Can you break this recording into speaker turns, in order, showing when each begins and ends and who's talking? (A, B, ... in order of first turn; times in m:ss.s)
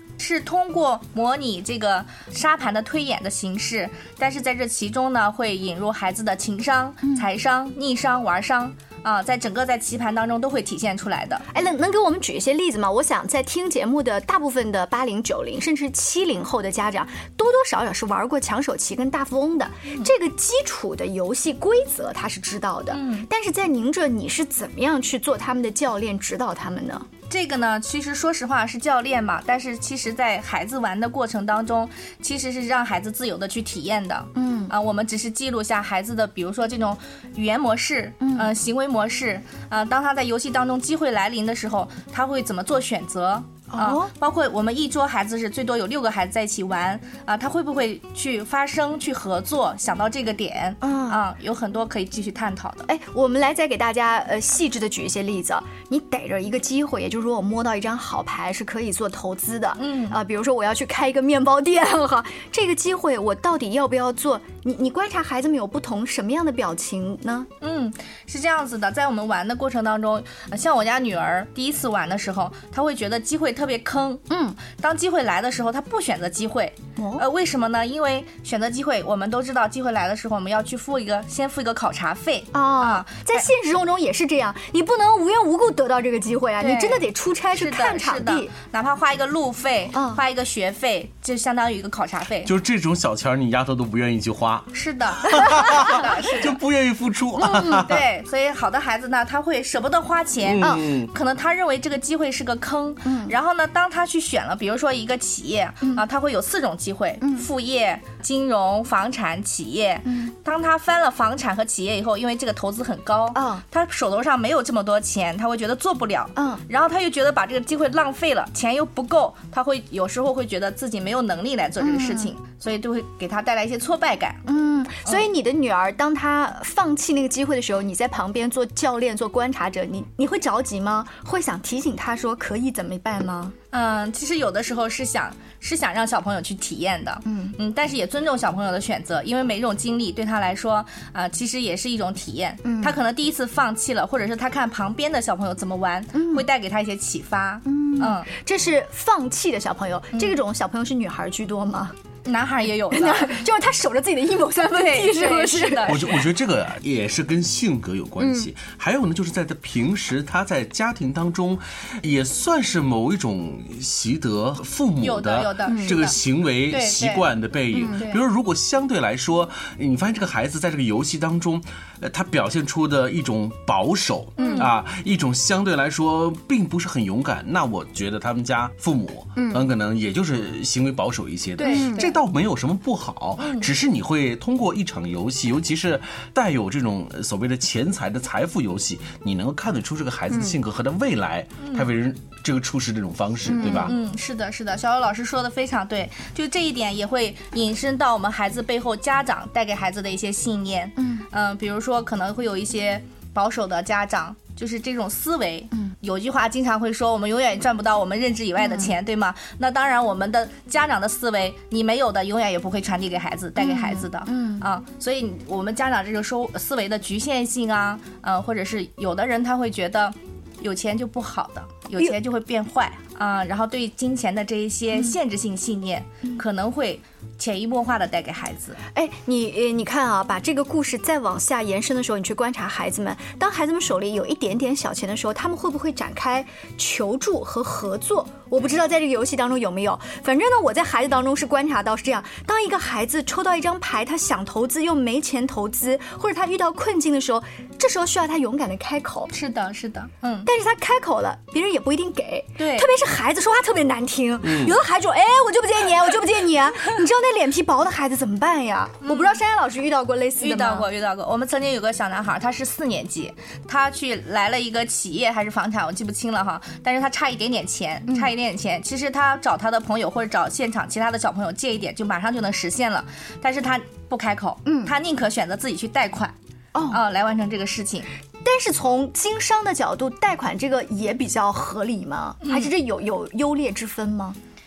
0:00.2-0:11.4 A
0:11.5-0:27.1 B
0:22.9-0:23.3 A
0:27.3-0:52.9 A
0:34.3-0:34.7 B
0:38.2-0:38.5 B
0:43.7-0:44.1 B
0:50.8-0:51.2 B
0:52.9-1:07.5 B
0:59.8-1:00.2 A
1:07.6-1:23.4 A
1:14.3-1:14.6 B
1:17.0-1:17.2 B
1:22.5-1:28.5 B
1:26.6-1:32.5 A
1:29.9-1:30.2 B
1:32.4-1:38.0 C
1:34.7-1:36.6 A
1:37.4-1:37.8 B
1:37.7-2:04.4 A
1:40.4-1:41.1 C
1:43.0-1:43.3 B
1:47.2-1:47.5 B
1:50.0-1:50.3 B
1:53.3-1:53.6 B
1:56.4-1:56.6 B
2:01.8-2:02.3 B
2:04.4-2:13.5 B
2:13.7-2:28.3 A
2:17.2-2:17.6 B
2:22.6-2:23.0 B
2:26.1-2:26.4 B
2:27.6-2:31.9 B
2:32.2-2:33.4 A
2:32.9-2:36.1 B
2:34.7-2:36.1 A
2:35.9-3:14.0 C
2:38.2-2:38.5 B
2:45.0-2:46.2 A
2:45.6-2:46.0 B
2:46.7-2:47.3 A
2:47.7-2:48.1 B
2:48.0-2:48.2 A
2:54.4-2:54.7 B
2:54.4-2:54.7 A
2:59.4-2:59.6 B
3:01.6-3:02.2 A
3:01.6-3:02.1 B
3:03.4-3:03.7 A
3:11.6-3:11.9 A
3:13.5-3:13.9 B
3:13.6-3:48.8 A
3:21.0-3:21.2 B
3:28.6-3:28.9 B
3:33.6-3:34.7 B
3:48.9-4:09.3 B
4:09.3-4:10.5 A
4:10.4-4:20.9 B
4:12.6-4:12.9 A
4:14.4-4:14.8 C
4:19.0-4:19.4 A
4:20.4-4:36.3 A
4:34.6-4:34.9 B
4:36.7-4:37.0 B
4:36.9-4:38.1 A
4:38.4-4:44.4 B
4:42.4-4:42.7 A